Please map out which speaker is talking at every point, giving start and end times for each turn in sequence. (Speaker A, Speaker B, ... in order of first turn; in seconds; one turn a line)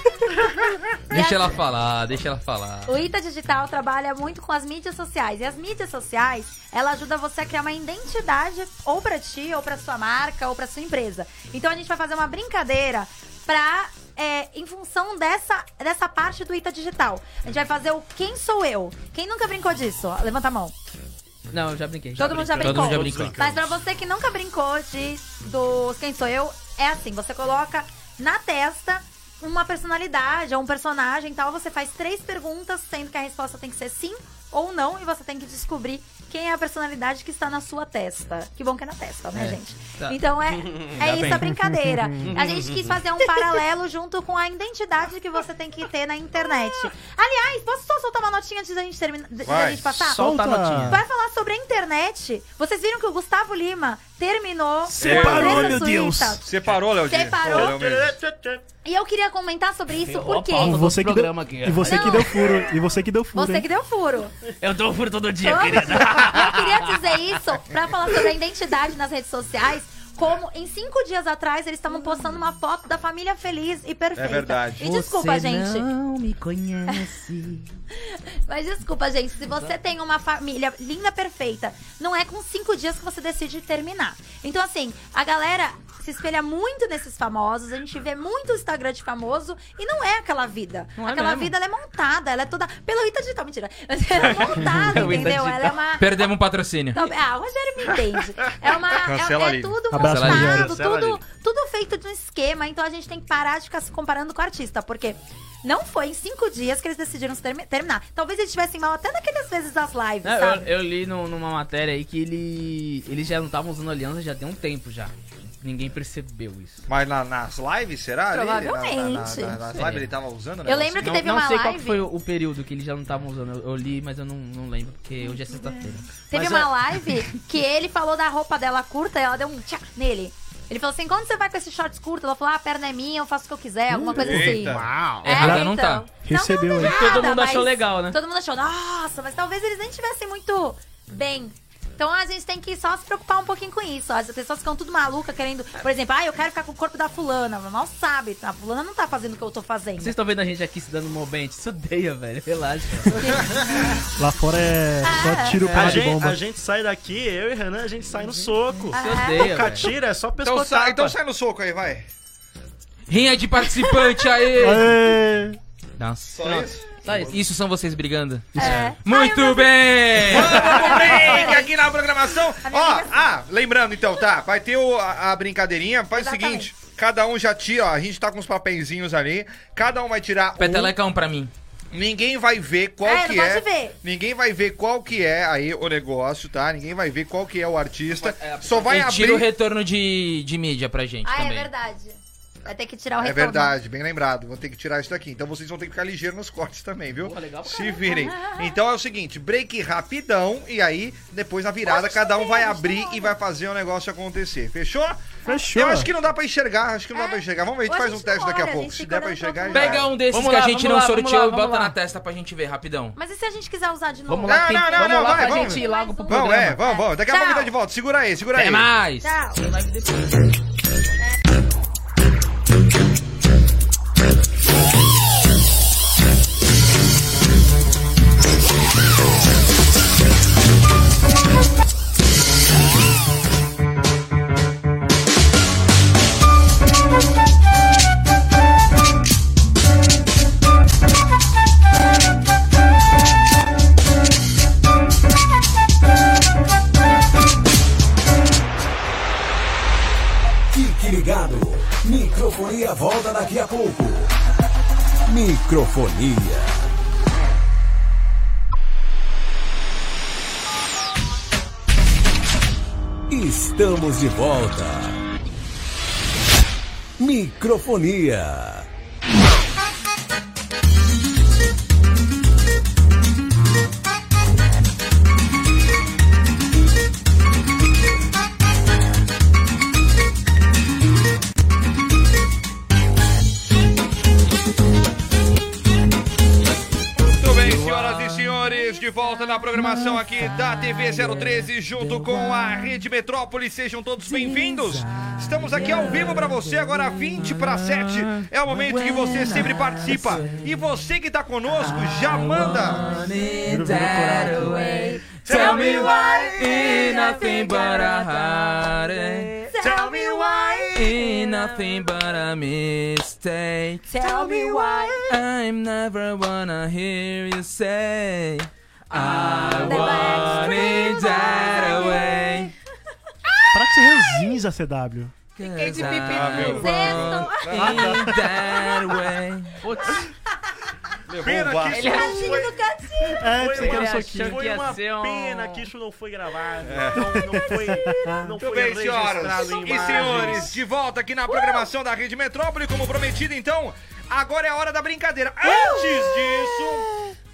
Speaker A: 1.1-1.5
Speaker B: 1.1-2.9
Speaker A: 2.9-20.7
Speaker C: 21.5-23.1
Speaker A: 22.1-50.3
Speaker B: 22.6-23.4
Speaker D: 22.6-23.6
Speaker C: 39.3-40.2
Speaker D: 41.0-41.2
Speaker C: 41.0-41.5
Speaker E: 41.2-42.4
Speaker D: 42.2-43.0
Speaker F: 49.4-49.9
Speaker C: 50.0-51.0
Speaker E: 50.0-51.0
Speaker A: 50.8-56.4
Speaker E: 54.9-56.4
Speaker F: 55.0-55.8
Speaker D: 55.0-55.4
Speaker F: 56.4-58.2
Speaker A: 57.0-57.8
Speaker D: 57.4-58.6
Speaker A: 58.8-60.8
Speaker C: 60.0-62.6
Speaker E: 60.6-63.7
Speaker A: 61.8-62.6
Speaker A: 63.3-64.3
Speaker C: 64.6-67.0
Speaker A: 65.4-75.9
Speaker F: 74.2-74.8
Speaker B: 74.8-77.7
Speaker A: 77.9-96.3
Speaker C: 91.0-91.5
Speaker C: 94.2-95.8
Speaker E: 94.6-95.0
Speaker B: 96.0-97.0
Speaker A: 96.9-110.7
Speaker F: 99.0-99.8
Speaker E: 99.9-100.8
Speaker B: 99.9-100.6
Speaker D: 100.3-101.2
Speaker C: 110.2-116.8
Speaker F: 116.9-121.2
Speaker A: 118.3-119.7
Speaker C: 119.7-120.1
Speaker A: 120.6-122.1
Speaker C: 121.0-126.1
Speaker A: 125.2-150.1
Speaker D: 126.3-126.6
Speaker E: 133.9-134.6
Speaker F: 134.2-134.9
Speaker D: 134.6-135.2
Speaker B: 135.2-136.1
Speaker E: 135.2-137.2
Speaker C: 136.8-138.2
Speaker C: 150.0-153.2
Speaker A: 153.1-154.0
Speaker E: 154.2-156.4
Speaker A: 155.0-155.8
Speaker D: 155.7-161.2
Speaker C: 158.2-159.9
Speaker A: 158.9-159.9
Speaker F: 160.4-162.1
Speaker B: 163.1-164.9
Speaker A: 163.6-164.2
Speaker E: 164.6-165.6
Speaker B: 166.0-166.4
Speaker F: 166.3-166.9
Speaker C: 166.4-167.4
Speaker B: 167.1-170.8
Speaker A: 168.6-171.7
Speaker E: 168.6-168.9
Speaker F: 170.2-180.9
Speaker A: 172.6-173.2
Speaker A: 176.1-176.7
Speaker B: 180.6-181.5
Speaker F: 181.9-189.5
Speaker A: 183.0-183.9
Speaker C: 188.1-189.0
Speaker B: 188.8-191.7
Speaker A: 191.2-193.8
Speaker F: 193.2-210.1
Speaker C: 197.2-198.2
Speaker A: 197.9-198.7
Speaker A: 201.8-203.3
Speaker E: 205.5-206.1
Speaker A: 207.1-210.1
Speaker B: 209.7-213.2
Speaker C: 210.3-211.9
Speaker A: 213.2-217.7
Speaker C: 214.3-216.8
Speaker F: 214.5-218.9
Speaker B: 218.5-219.3
Speaker A: 219.2-219.6
Speaker C: 219.5-220.3
Speaker G: 250.7-254.3
Speaker G: 255.3-256.9
Speaker G: 263.3-265.2
Speaker G: 267.2-268.9
Speaker F: 287.4-303.1
Speaker B: 287.5-288.6
Speaker B: 289.7-293.0
Speaker B: 294.2-300.7
Speaker B: 301.7-309.5
Speaker E: 303.6-304.8
Speaker A: 303.9-311.6
Speaker F: 305.5-306.1
Speaker D: 305.5-306.5
Speaker D: 309.8-311.5
Speaker B: 310.9-314.1
Speaker A: 314.1-315.3
Speaker D: 314.2-315.3
Speaker B: 315.3-322.7
Speaker C: 319.4-320.6
Speaker A: 319.7-322.7
Speaker A: 323.6-324.4
Speaker E: 323.7-325.3
Speaker B: 325.6-329.8
Speaker A: 325.6-328.1
Speaker C: 325.8-326.7
Speaker F: 326.1-328.2
Speaker E: 327.7-328.4
Speaker A: 328.6-328.9
Speaker C: 329.8-330.3
Speaker F: 331.3-332.3
Speaker D: 331.4-332.8
Speaker A: 331.9-333.5
Speaker C: 331.9-332.6
Speaker E: 333.4-334.6
Speaker D: 333.4-340.8
Speaker C: 333.8-335.9
Speaker F: 336.8-337.4
Speaker E: 337.2-338.5
Speaker F: 338.6-347.1
Speaker A: 339.7-340.1
Speaker A: 341.5-341.9
Speaker A: 345.7-346.0